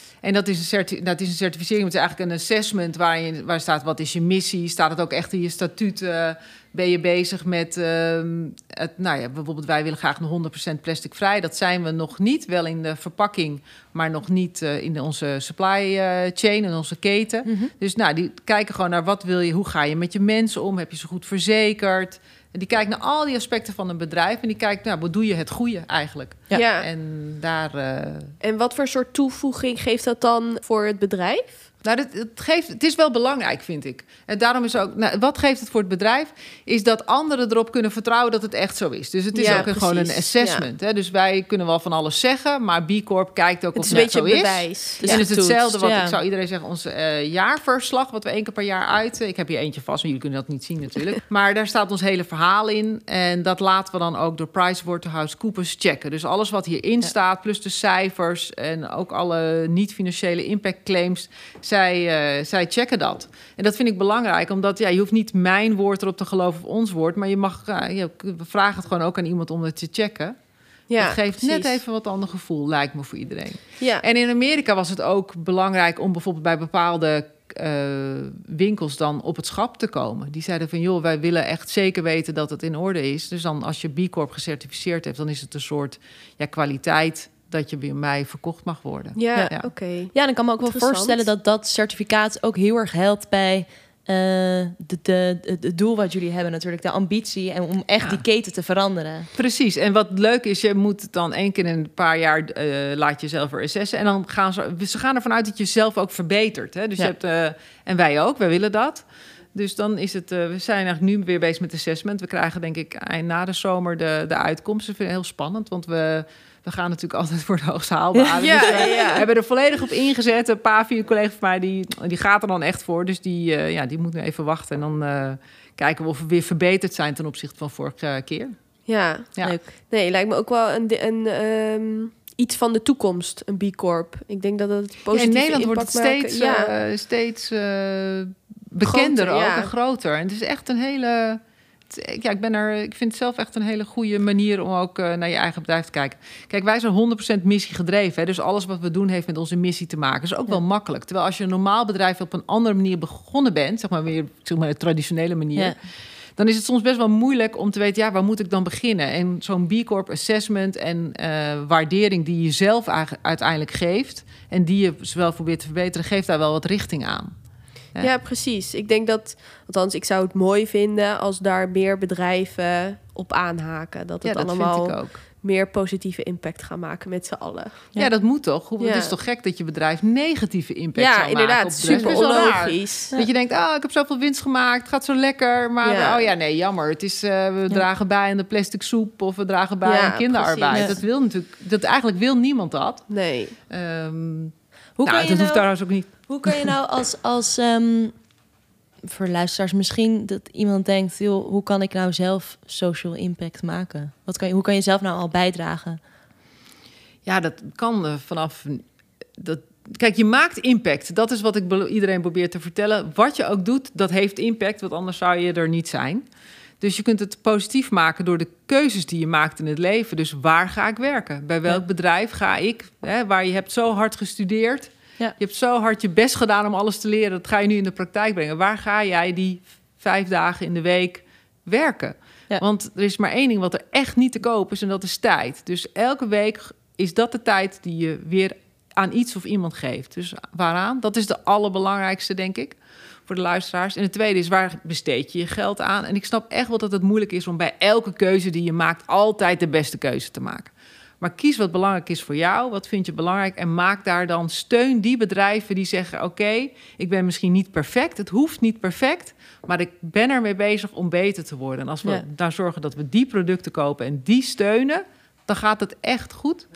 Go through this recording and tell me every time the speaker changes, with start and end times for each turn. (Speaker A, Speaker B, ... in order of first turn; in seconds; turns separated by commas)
Speaker A: 0.2-28.3, Speaker B: 17.4-17.7, Speaker C: 26.5-26.9, Speaker C: 28.4-31.7, Speaker A: 31.8-70.3, Speaker C: 39.3-40.6, Speaker C: 43.8-45.6, Speaker B: 45.0-46.2, Speaker C: 70.9-71.7, Speaker A: 71.0-89.7, Speaker C: 89.2-91.2, Speaker B: 90.1-99.3, Speaker A: 99.3-128.5, Speaker B: 118.1-118.9, Speaker C: 118.4-119.2, Speaker C: 128.8-136.7, Speaker B: 129.4-129.7, Speaker A: 135.1-168.1, Speaker C: 138.8-139.7, Speaker C: 168.0-177.9, Speaker A: 174.2-175.2, Speaker A: 177.9-193.1, Speaker C: 178.8-179.1, Speaker C: 180.9-183.1, Speaker C: 185.8-186.2, Speaker C: 189.8-190.9, Speaker B: 190.7-191.0, Speaker C: 193.1-193.6, Speaker A: 193.7-196.7, Speaker B: 195.0-198.2, Speaker B: 199.0-206.0, Speaker A: 207.2-208.8, Speaker A: 209.4-216.2, Speaker A: 216.8-266.7